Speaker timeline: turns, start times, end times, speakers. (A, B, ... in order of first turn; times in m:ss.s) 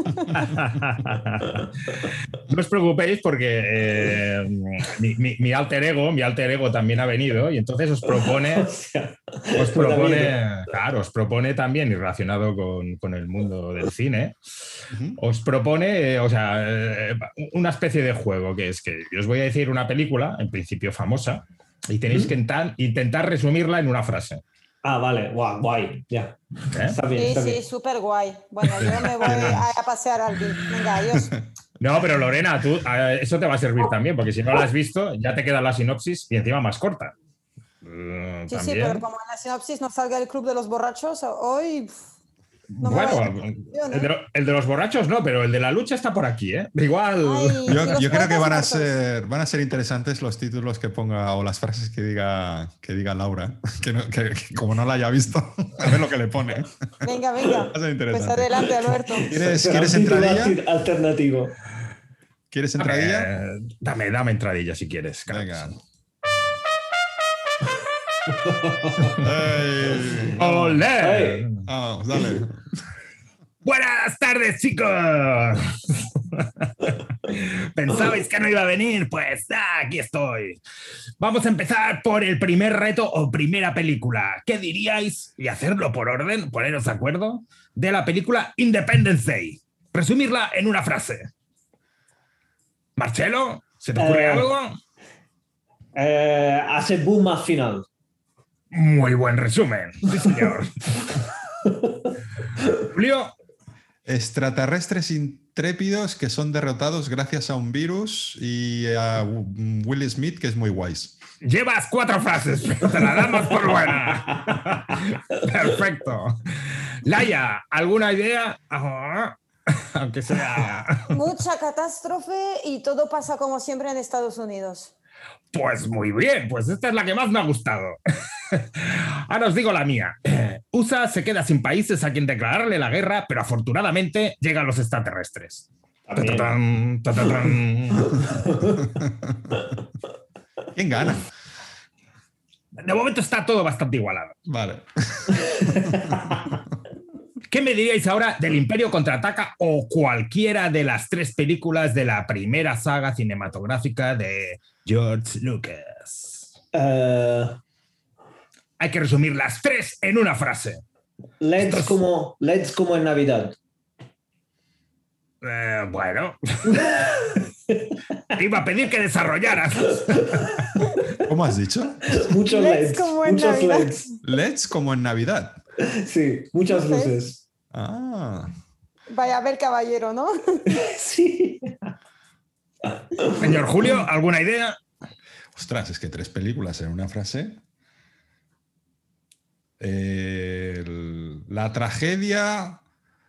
0:00.3-0:01.6 A
0:02.3-0:08.7 A
0:08.2-0:10.4 B
0:09.6-0:14.4 A
0:14.9-0:15.2 C
0:15.2-0:24.4 A
0:24.8-0:27.6 B
0:26.7-0:27.0 A
0:27.1-0:31.3 D
0:28.8-0:29.7 C
0:29.2-0:29.6 A
0:31.1-0:31.4 C
0:31.8-0:37.1 A
0:37.8-0:39.0 A
0:38.5-0:42.0 D
0:42.7-0:48.2 A
0:42.8-0:44.1 D
0:47.2-0:48.9 D
0:47.6-0:57.1 C
0:57.0-0:59.4 D
0:57.7-0:58.7 C
0:59.2-1:01.6 B
0:59.2-1:00.6 C
1:02.5-1:03.3 C
1:02.8-1:05.8 A
1:05.3-1:05.8 C
1:08.4-1:09.2 B
1:09.2-1:10.8 C
1:10.4-1:11.6 A
1:10.8-1:11.5 B
1:11.6-1:12.6 C
1:13.6-1:20.6 A
1:21.2-1:31.3 A
1:33.0-1:34.8 A
1:34.0-1:34.5 B
1:35.9-1:37.8 B
1:38.7-1:40.9 A
1:42.7-1:43.3 A
1:44.0-1:51.2 C
1:51.4-1:56.4 A
1:54.3-1:54.5 B
1:57.0-2:01.2 A
2:01.1-2:04.9 D
2:05.5-2:08.0 A
2:08.5-2:18.5 A
2:16.1-2:16.5 B
2:18.3-2:18.8 B
2:19.0-2:19.6 C
2:20.7-2:21.2 C
2:22.8-2:24.4 A
2:24.4-2:26.6 C
2:27.5-2:36.5 A
2:36.7-2:37.6 B
2:38.8-2:40.8 A
2:41.4-2:43.6 B
2:41.6-2:42.0 A
2:45.4-2:46.9 A
2:46.7-2:48.0 B
2:48.3-2:50.6 A
2:51.2-2:52.3 C
2:52.0-2:54.1 B
2:52.5-2:54.0 D
2:54.2-2:55.6 C
2:55.8-2:57.4 B
2:56.7-2:57.2 D
2:57.7-2:58.5 C
2:59.1-3:00.8 D
3:00.7-3:01.9 B
3:02.9-3:03.6 B
3:03.4-3:04.8 A
3:05.5-3:07.6 C
3:09.8-3:12.8 C